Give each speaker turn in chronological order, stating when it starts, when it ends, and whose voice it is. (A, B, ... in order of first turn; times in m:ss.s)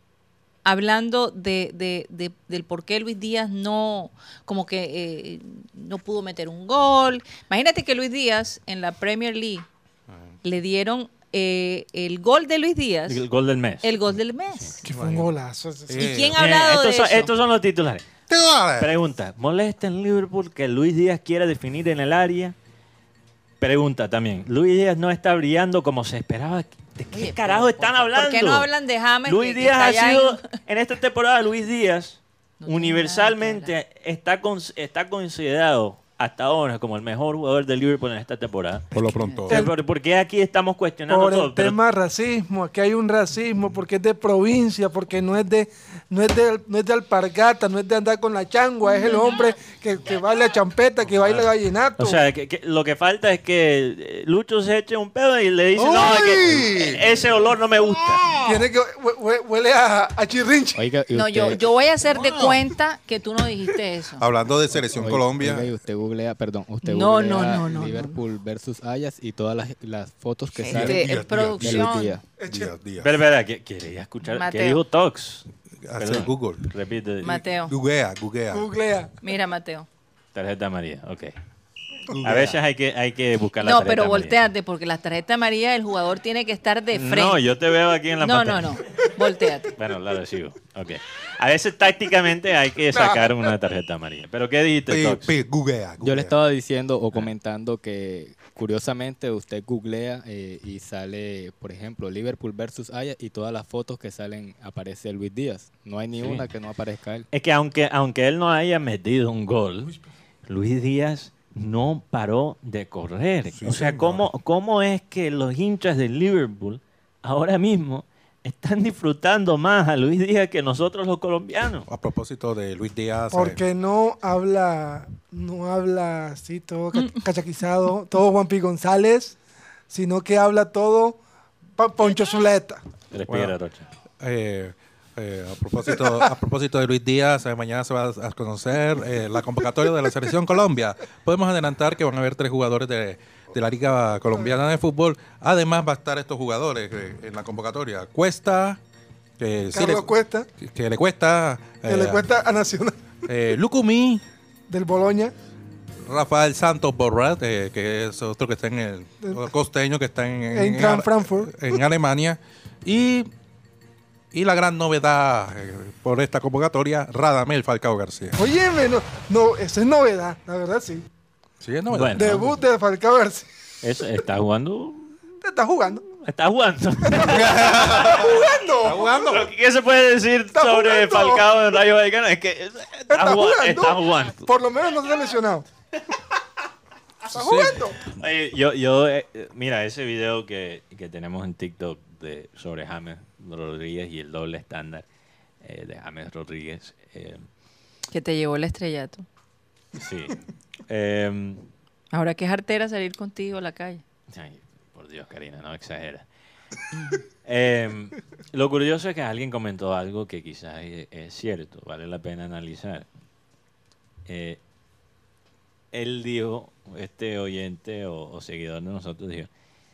0:00.6-0:09.7 A
0:10.4-0:13.2 A
0:13.1-0:14.1 B
0:13.8-0:14.8 A
0:14.8-0:16.1 C
0:14.8-0:15.3 D
0:15.9-0:16.4 D
0:16.0-0:17.3 A
0:16.4-0:18.1 B
0:18.3-0:18.9 D
0:18.8-0:22.6 B
0:23.6-0:28.7 B
0:27.1-0:30.5 A
0:29.3-0:39.0 B
0:32.6-0:33.7 A
0:38.9-0:39.7 D
0:39.0-0:39.5 A
0:39.5-0:41.8 B
0:41.1-0:52.2 C
0:51.2-0:58.4 B
0:55.8-0:57.1 D
0:58.4-1:00.8 C
1:00.8-1:01.6 E
1:01.1-1:04.2 A
1:02.2-1:02.5 D
1:04.2-1:05.7 D
1:04.7-1:12.2 E
1:06.8-1:08.2 A
1:10.6-1:12.2 A
1:10.6-1:11.9 D
1:12.4-1:12.7 C
1:12.5-1:13.2 D
1:13.0-1:15.4 B
1:14.3-1:14.8 A
1:15.8-1:16.7 D
1:16.0-1:17.4 B
1:17.2-1:17.7 A
1:17.7-1:18.7 D
1:18.5-1:19.2 C
1:19.2-1:19.9 A
1:20.3-1:21.3 B
1:22.1-1:22.6 D
1:22.2-1:24.4 B
1:23.6-1:27.4 A
1:26.9-1:28.8 B
1:28.2-1:29.8 A
1:29.8-1:35.3 B
1:32.9-1:33.3 C
1:34.9-1:36.4 D
1:36.0-1:47.3 E
1:46.2-1:46.4 B
1:47.3-1:49.9 B
1:50.5-2:01.9 B
1:53.5-1:54.3 D
2:01.9-2:03.6 D
2:03.3-2:09.4 C
2:09.9-2:11.2 C
2:11.8-2:12.8 C
2:13.1-2:13.9 B
2:13.3-2:13.6 D
2:14.2-2:28.8 D
2:29.4-2:32.2 D
2:29.7-2:30.5 C
2:31.9-2:33.1 C
2:33.3-2:34.2 D
2:34.7-2:35.3 C
2:36.0-2:43.3 D
2:40.5-2:41.8 C
2:44.3-2:48.4 D
2:48.4-2:51.1 C
2:51.6-2:52.4 D
2:51.9-2:52.5 B
2:52.2-2:53.5 C
2:53.8-2:55.1 B
2:55.4-2:56.0 C
2:56.2-2:58.3 B
2:57.0-2:59.2 C
2:57.2-2:59.5 D
2:59.3-3:04.4 B
3:00.5-3:01.5 C
3:03.1-3:05.6 C
3:07.3-3:07.9 D
3:07.3-3:08.0 C
3:08.1-3:15.0 B
3:15.6-3:17.4 B
3:18.1-3:19.3 A
3:20.0-3:21.7 B
3:22.1-3:24.0 A
3:24.3-3:26.2 B
3:27.4-3:33.1 B
3:34.3-3:34.6 B
3:35.9-3:39.5 B